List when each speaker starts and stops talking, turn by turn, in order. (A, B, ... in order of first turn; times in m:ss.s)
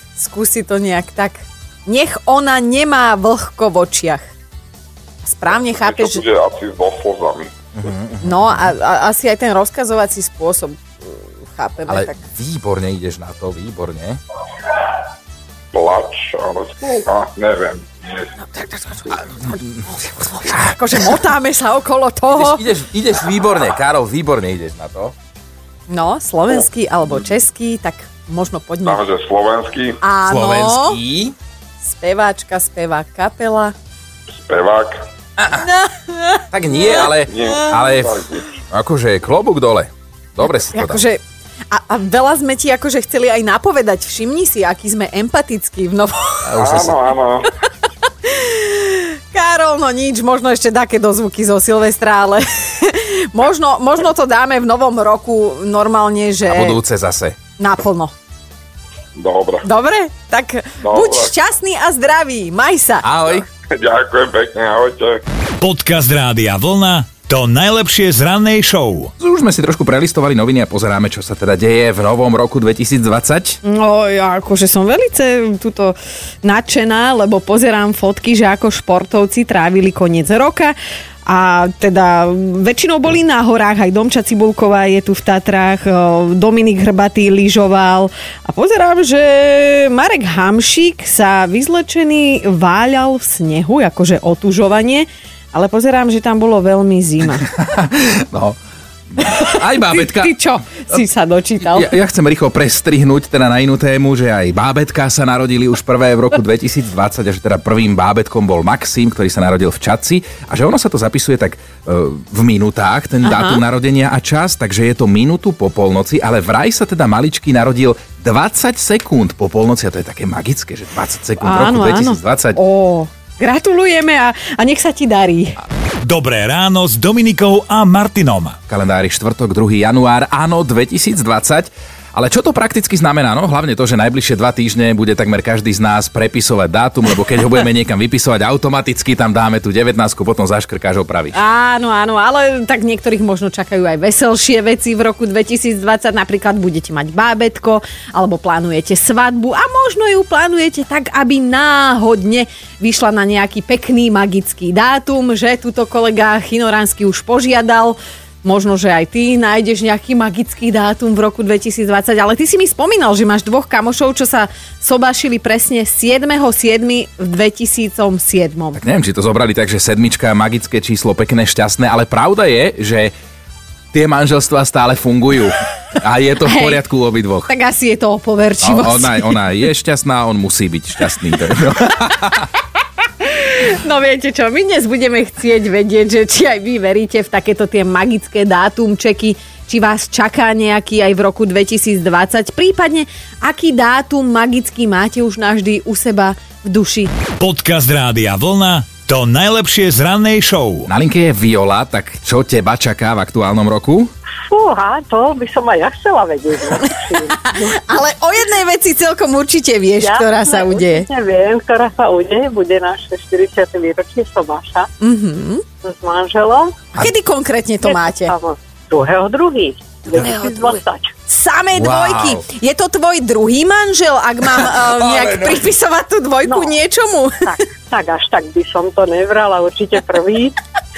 0:00.2-0:04.3 A
0:05.2-0:06.2 A
0:05.6-0:07.5 B
0:07.7-0:08.5 C
0:08.2-0:12.2 A
0:11.9-0:14.2 C
0:15.7-0:18.3 B
0:18.5-0:19.6 A
0:20.1-0:22.6 A
0:22.3-0:25.1 C
0:25.9-0:29.0 A
0:28.8-0:30.0 B
0:30.0-0:31.0 A
0:30.2-0:31.3 C
0:31.8-0:33.7 A
0:34.4-0:35.0 B
0:35.4-0:35.6 C
0:35.5-0:37.8 A
0:36.5-0:41.0 C
0:36.8-0:38.4 B
0:40.4-0:46.5 A
0:46.4-0:47.1 C
0:46.6-0:47.5 B
0:48.2-0:56.8 A
0:56.4-0:57.4 C
0:57.6-0:58.1 A
0:59.2-0:59.7 B
0:59.6-1:03.0 A
1:00.8-1:01.3 B
1:03.0-1:03.4 C
1:03.5-1:05.2 B
1:05.6-1:09.1 D
1:09.2-1:13.6 C
1:13.6-1:37.4 A
1:37.4-1:38.6 C
1:39.2-1:41.0 C
1:39.2-1:41.9 A
1:41.6-2:02.6 C
1:53.2-1:53.6 A
2:01.4-2:05.6 A
2:06.0-2:08.6 D
2:08.7-2:21.4 C
2:21.3-2:48.8 A
2:48.8-2:53.1 C
2:53.9-2:57.5 C
2:56.4-2:56.8 A
2:57.5-2:59.4 A
2:58.6-3:02.5 C
3:03.2-3:17.1 A
3:17.4-3:20.9 D
3:20.9-3:24.1 C
3:24.5-3:27.8 E
3:27.4-3:31.1 A
3:30.0-3:34.9 E
3:35.0-3:35.6 A
3:35.8-3:36.8 E
3:36.9-3:38.3 A
3:37.8-3:41.1 E
3:41.3-3:47.5 A
3:41.7-3:42.4 C
3:45.0-3:45.6 C
3:46.4-3:46.8 E
3:47.4-3:50.6 E